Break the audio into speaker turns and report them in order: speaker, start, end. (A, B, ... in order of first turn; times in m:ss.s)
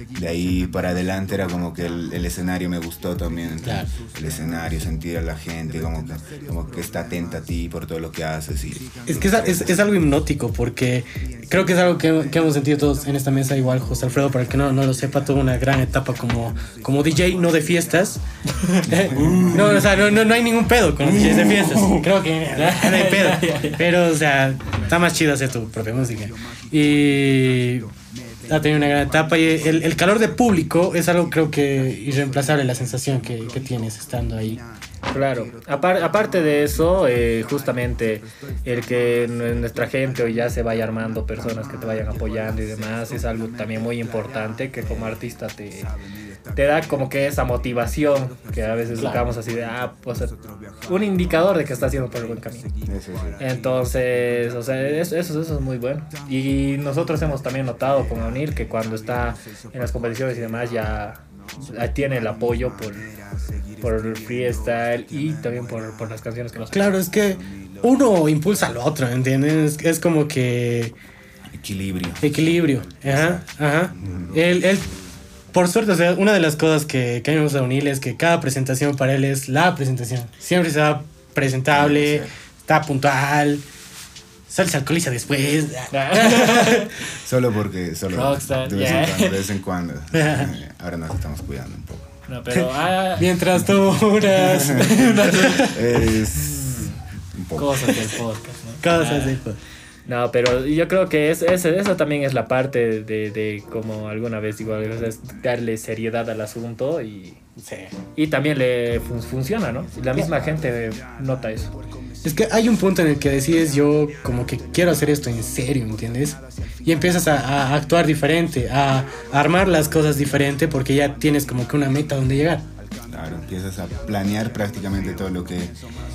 0:00.2-0:09.8 A
0:03.6-0:03.9 B
0:09.1-0:18.2 B
0:18.6-0:19.8 C
0:18.8-0:27.9 B
0:21.1-0:23.8 C
0:28.5-0:34.6 B
0:35.1-0:45.9 C
0:46.5-0:50.3 C
0:49.0-0:49.3 B
0:50.9-0:52.7 C
0:52.9-0:53.4 A
0:53.4-1:03.1 C
1:03.8-1:07.0 C
1:06.7-1:11.0 B
1:11.5-1:12.3 A
1:12.2-1:14.9 B
1:13.1-1:13.4 A
1:14.0-1:14.4 A
1:15.5-1:23.6 B
1:21.7-1:22.3 A
1:24.5-1:26.9 B
1:25.9-1:27.0 C
1:27.1-1:32.1 A
1:28.1-1:29.5 C
1:30.1-1:30.5 B
1:32.3-1:33.4 C
1:33.2-1:35.7 B
1:34.3-1:37.0 C
1:34.6-1:34.8 A
1:35.6-1:38.0 A
1:37.6-1:39.4 C
1:38.8-1:39.6 B
1:40.1-1:47.4 C
1:47.6-1:47.9 B
1:48.2-1:51.7 C
1:52.2-2:02.6 B
2:03.1-2:05.8 A